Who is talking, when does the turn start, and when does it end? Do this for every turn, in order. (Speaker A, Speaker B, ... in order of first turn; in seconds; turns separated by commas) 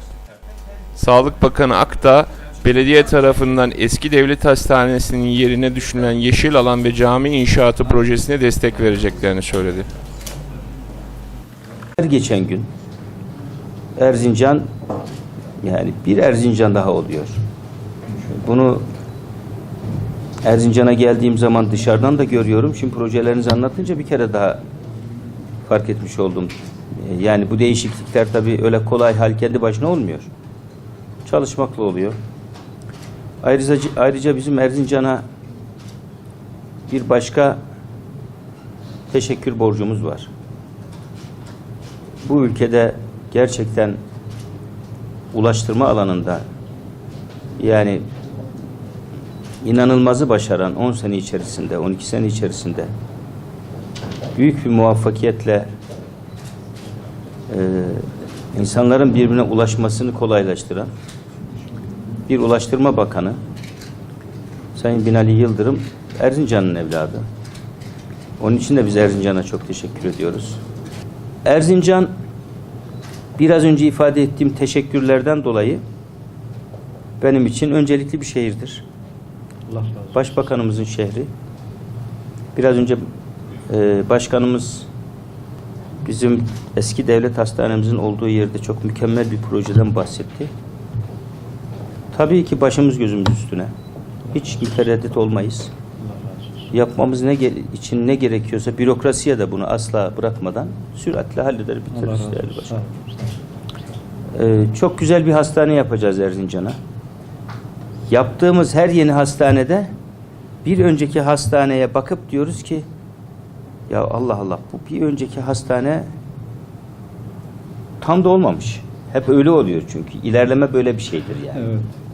Speaker A: 0.9-9.9, Speaker B: 12.0-12.7, Speaker B: 14.0-14.6, Speaker B: 15.6-17.4, Speaker B: 18.2-18.8, Speaker B: 20.4-24.6, Speaker B: 25.6-30.3, Speaker B: 31.2-32.1, Speaker B: 33.4-35.2, Speaker B: 36.9-37.6, Speaker B: 39.1-40.3, Speaker B: 42.2-44.0, Speaker B: 45.3-46.4, Speaker B: 47.6-48.0, Speaker B: 49.6-52.9, Speaker B: 54.4-55.7, Speaker B: 57.5-60.9, Speaker B: 62.3-63.4, Speaker B: 64.8-67.2, Speaker B: 68.4-70.6, Speaker B: 71.4-72.1, Speaker B: 73.4-75.8, Speaker B: 77.2-78.8, Speaker C: 79.7-80.4, Speaker B: 80.1-81.3, Speaker B: 82.5-83.0, Speaker B: 83.7-84.9, Speaker B: 86.0-90.5, Speaker B: 92.1-93.7, Speaker B: 94.3-95.7, Speaker C: 96.0-96.7, Speaker B: 96.7-102.8, Speaker C: 101.9-103.4, Speaker B: 104.3-106.8, Speaker B: 108.1-109.9, Speaker B: 110.6-112.8, Speaker B: 113.9-116.1, Speaker B: 118.0-121.6, Speaker C: 121.5-121.9